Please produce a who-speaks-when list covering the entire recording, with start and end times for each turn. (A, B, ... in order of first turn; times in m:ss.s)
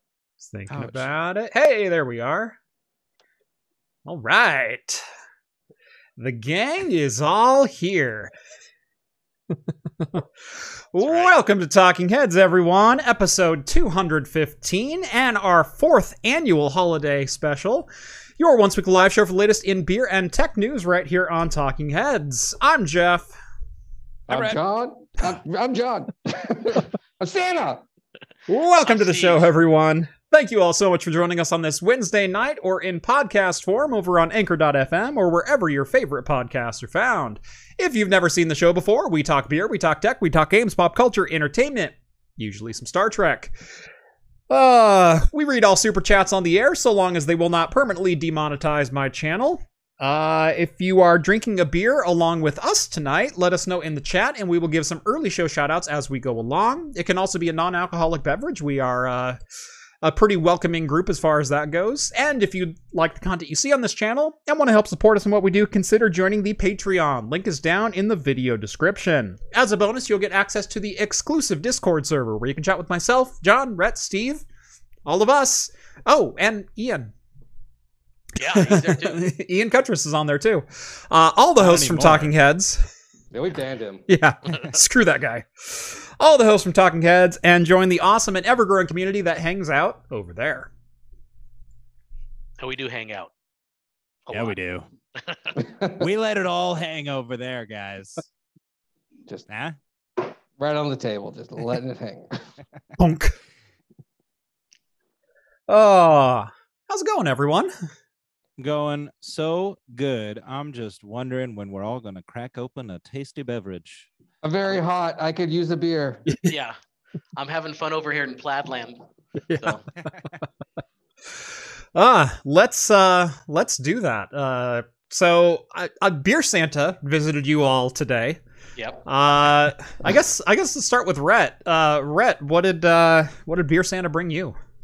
0:00.4-0:02.6 A
0:00.7-0:01.1 B
0:04.0-0:05.0 A
0:06.2-0:08.3 A
0:10.0-0:10.2 A
0:10.9-0:23.3 A
0:11.0-0:11.3 C
0:24.3-0:27.8 D
0:24.3-0:24.6 B
0:28.5-0:43.5 A
0:28.8-0:29.4 C
0:44.5-0:59.4 A
1:00.0-1:14.4 A
1:15.0-1:17.1 A
1:18.4-1:19.2 C
1:18.4-1:22.9 A
1:21.6-1:22.3 B
1:23.3-1:24.0 D
1:24.1-1:30.7 A
1:32.6-1:33.3 C
1:34.3-1:34.6 C
1:34.3-1:34.9 B
1:35.2-1:35.6 C
1:35.6-1:36.0 D
1:36.0-1:38.2 B
1:39.5-1:39.8 B
1:40.6-1:42.4 D
1:43.0-1:43.3 A
1:45.7-1:47.7 A
1:48.6-1:54.1 B
1:54.4-1:56.2 D
1:56.4-1:56.8 C
1:57.4-1:59.8 C
1:59.5-2:00.1 A
2:01.9-2:08.4 A
2:08.8-2:09.0 C
2:09.0-2:14.6 A